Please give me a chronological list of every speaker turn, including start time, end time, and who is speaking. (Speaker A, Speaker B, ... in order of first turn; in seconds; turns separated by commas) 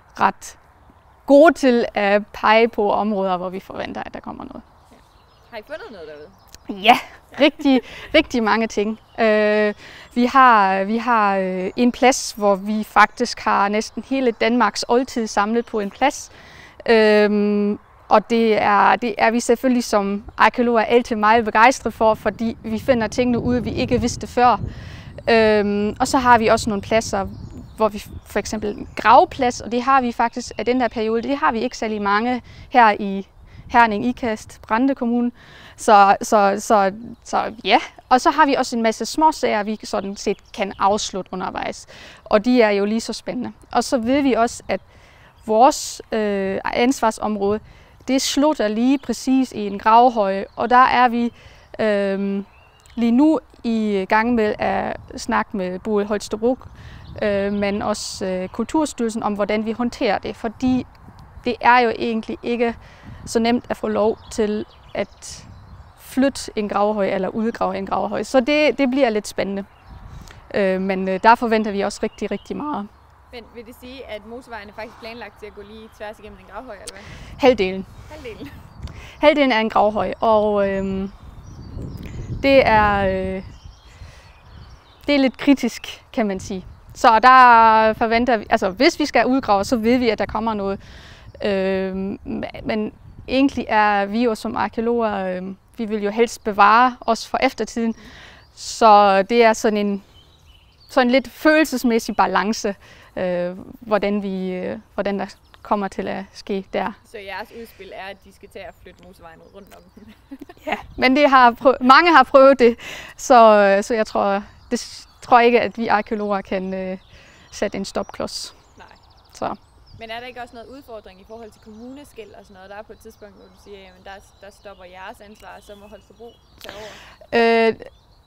Speaker A: 0.1-0.6, Speaker A: 1.2-4.6, Speaker B: 4.9-6.4, Speaker A: 6.7-16.3, Speaker A: 16.8-24.6, Speaker A: 25.2-44.8, Speaker A: 45.4-60.9, Speaker A: 61.4-69.7, Speaker A: 70.5-72.9, Speaker B: 73.3-77.2, Speaker A: 77.4-77.9, Speaker B: 78.1-78.6, Speaker A: 79.2-81.1, Speaker A: 82.4-83.5, Speaker A: 85.0-90.8, Speaker A: 91.4-98.0, Speaker A: 98.5-100.0, Speaker A: 100.9-107.0, Speaker B: 107.0-110.4, Speaker A: 110.6-118.5, Speaker A: 119.3-119.6, Speaker B: 120.0-127.0, Speaker A: 127.3-127.9